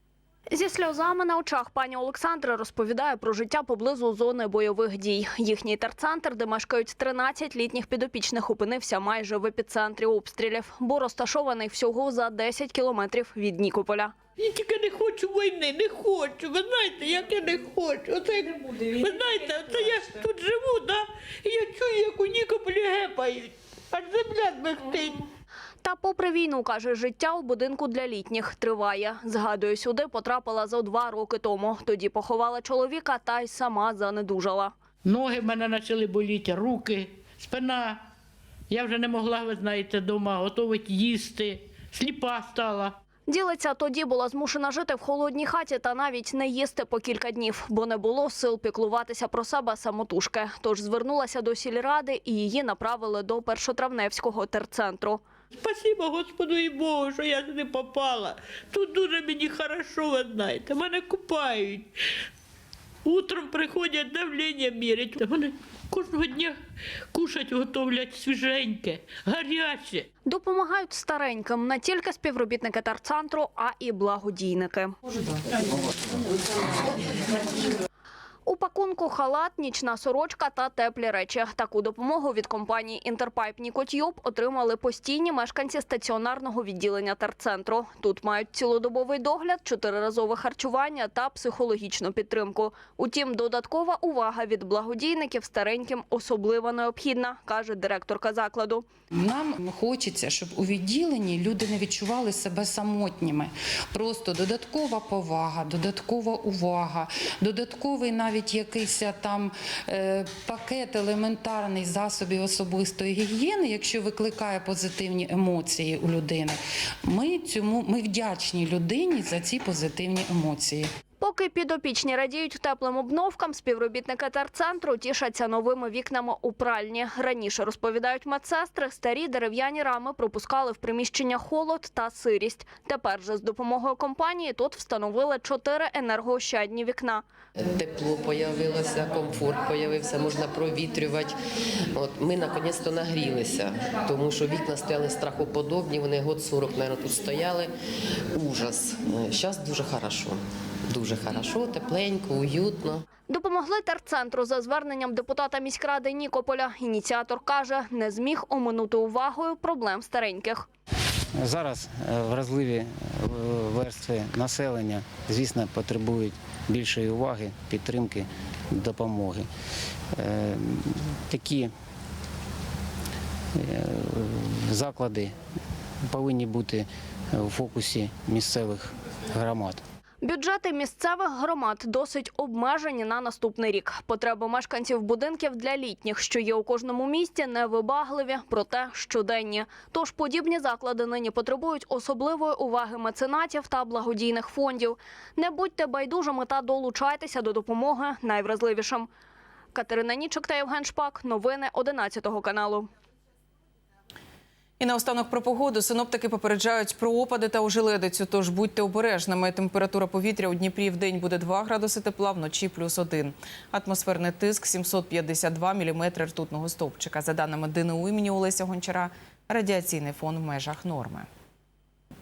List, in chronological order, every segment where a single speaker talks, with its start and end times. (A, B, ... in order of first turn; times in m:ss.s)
0:00.5-0:14.1 A
0:14.4-0:25.2 B
0:25.8-0:34.7 A
0:35.0-0:38.0 B
0:38.7-0:43.0 B
0:43.3-0:55.2 A
0:55.5-1:01.9 B
1:03.0-1:06.6 B
1:07.1-1:10.1 B
1:10.2-1:14.9 A
1:18.4-1:38.8 A
1:39.2-2:00.9 C
2:01.2-2:17.2 A
2:17.6-2:21.4 D
2:21.9-2:27.7 D
2:28.3-2:33.0 D
2:33.3-2:40.7 A
2:41.4-2:49.5 E
2:50.1-2:51.7 E
2:53.5-2:55.4 E
2:56.1-2:59.8 E
3:00.2-3:19.1 A
3:19.7-3:22.9 A
3:24.8-3:41.3 F